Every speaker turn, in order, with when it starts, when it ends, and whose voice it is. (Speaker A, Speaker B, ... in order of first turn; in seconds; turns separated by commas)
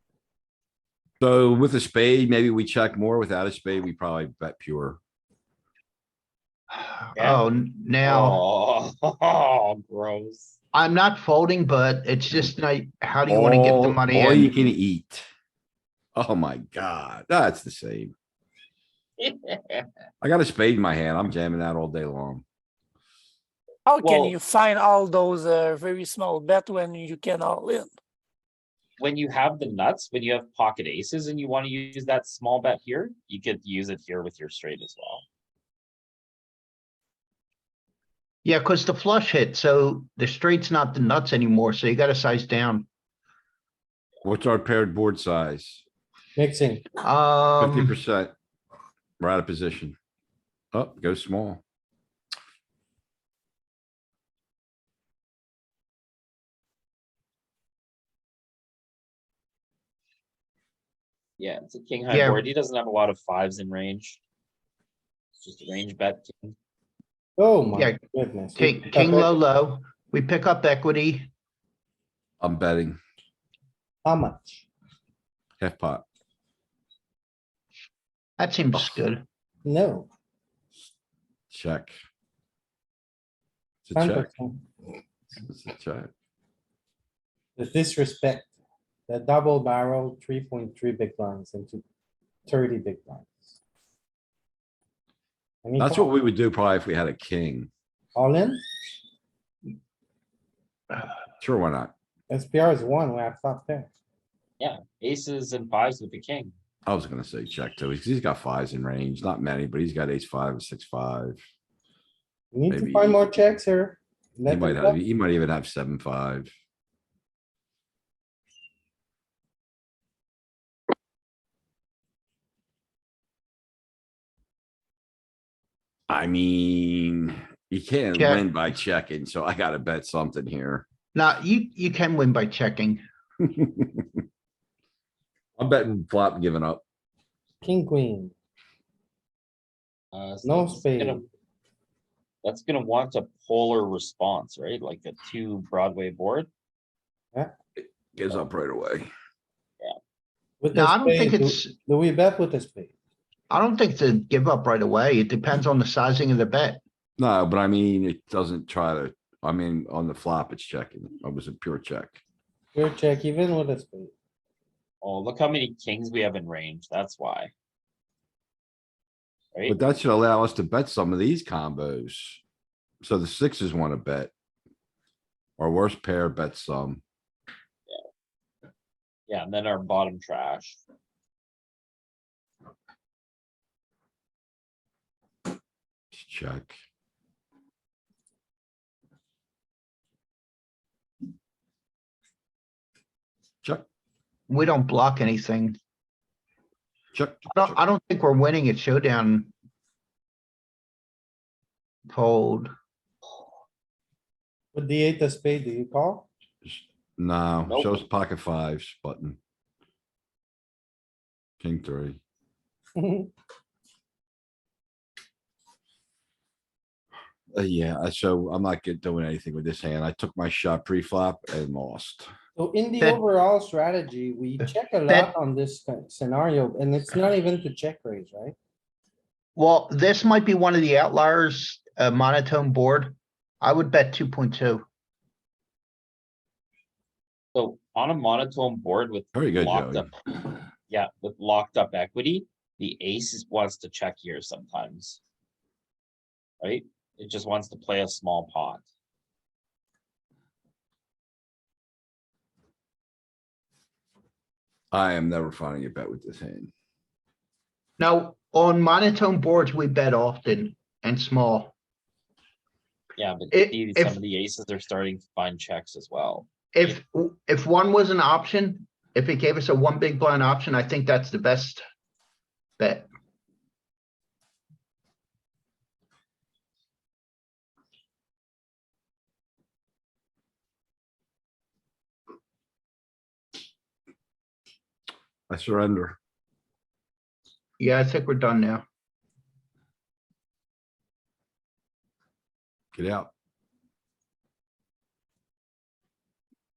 Speaker A: 1.2-5.0, Speaker B: 6.7-8.4, Speaker C: 7.2-7.5, Speaker C: 8.0-10.5, Speaker B: 10.7-14.6, Speaker A: 13.3-15.3, Speaker A: 16.1-18.1, Speaker C: 19.2-19.8, Speaker A: 20.2-22.4, Speaker D: 23.9-27.9, Speaker C: 24.0-24.3, Speaker C: 29.0-35.2, Speaker B: 38.4-42.9, Speaker A: 44.2-45.8, Speaker E: 46.4-46.9, Speaker B: 47.0-48.0, Speaker A: 47.6-48.3, Speaker A: 49.2-50.0, Speaker A: 50.7-51.6, Speaker C: 61.4-64.2, Speaker B: 62.1-62.4, Speaker C: 65.4-66.5, Speaker E: 67.4-69.4, Speaker B: 68.6-71.3, Speaker A: 72.4-73.0, Speaker E: 74.0-74.7, Speaker A: 75.6-76.0, Speaker B: 78.4-79.2, Speaker E: 79.6-80.1, Speaker A: 81.5-81.9, Speaker A: 83.8-84.3, Speaker E: 83.9-84.6, Speaker A: 85.5-86.1, Speaker E: 87.5-88.5, Speaker E: 89.1-91.8, Speaker E: 92.5-93.5, Speaker E: 95.6-96.1, Speaker A: 95.8-97.7, Speaker E: 98.1-98.6, Speaker A: 101.4-101.9, Speaker E: 102.3-103.9, Speaker C: 104.6-106.5, Speaker A: 106.8-111.4, Speaker E: 112.5-115.0, Speaker A: 112.7-113.3, Speaker A: 114.5-116.5, Speaker A: 126.1-130.8, Speaker B: 128.2-128.4, Speaker B: 131.1-133.0, Speaker A: 133.5-134.0, Speaker A: 135.6-136.8, Speaker E: 137.6-138.3, Speaker C: 140.1-141.2, Speaker E: 140.4-141.2, Speaker C: 142.4-146.5, Speaker A: 147.8-149.1, Speaker E: 150.6-152.9, Speaker B: 150.7-151.7, Speaker B: 153.5-156.8, Speaker A: 157.2-162.2, Speaker E: 162.7-164.1, Speaker C: 165.0-167.5, Speaker A: 169.7-172.4, Speaker A: 173.0-174.3, Speaker A: 175.6-177.0, Speaker C: 179.3-180.8, Speaker A: 186.1-186.8, Speaker B: 194.5-195.8, Speaker A: 197.1-197.8, Speaker B: 197.5-199.5, Speaker B: 202.1-202.7, Speaker E: 204.7-206.3, Speaker A: 206.6-209.4, Speaker C: 207.7-208.0, Speaker A: 211.6-212.2, Speaker E: 212.9-213.3, Speaker A: 217.5-222.3, Speaker E: 222.6-228.6, Speaker B: 224.6-225.3, Speaker B: 229.6-234.8, Speaker C: 237.5-240.1, Speaker A: 239.3-240.1, Speaker C: 240.9-245.2, Speaker C: 246.6-248.8, Speaker A: 254.9-256.7, Speaker B: 258.0-261.7, Speaker C: 263.2-267.0, Speaker B: 263.5-264.2, Speaker B: 266.7-271.8, Speaker B: 272.8-273.1, Speaker A: 285.5-286.2, Speaker B: 287.8-288.8, Speaker A: 292.9-293.3